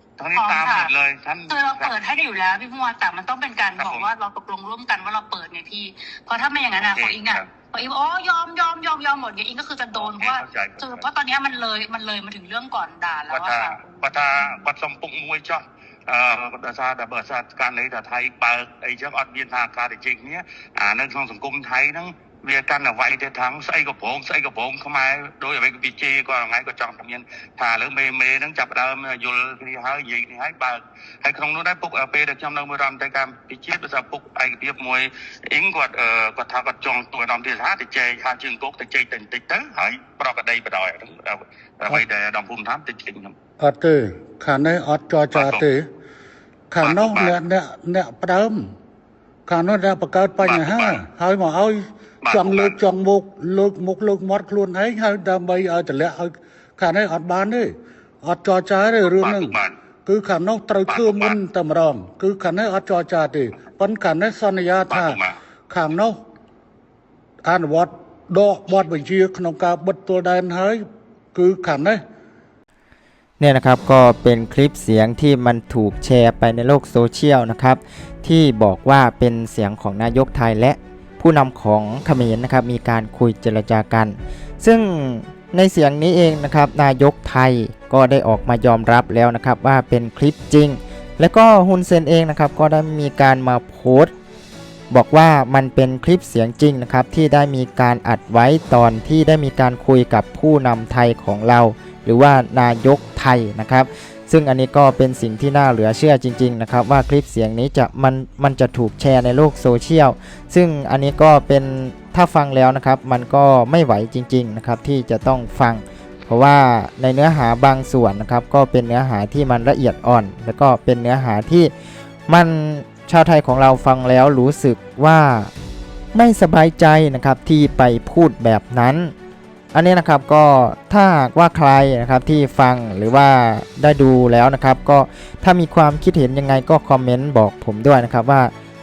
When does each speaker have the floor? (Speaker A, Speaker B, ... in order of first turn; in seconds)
Speaker A: 0.2-1.9, 3.7-4.1, 6.7-7.5, 9.9-11.1, 13.3-43.4, 45.3-45.7, 46.8-47.4, 50.4-51.0, 52.2-52.8, 59.0-59.8, 60.9-61.4, 64.9-65.4
Speaker B: 0.3-0.9, 1.5-14.6
Speaker C: 43.6-45.9, 46.7-48.6, 49.5-66.2, 67.4-70.8, 71.3-72.0
Speaker D: 73.4-94.1, 94.9-121.7, 122.3-125.5, 126.1-129.1, 129.7-138.5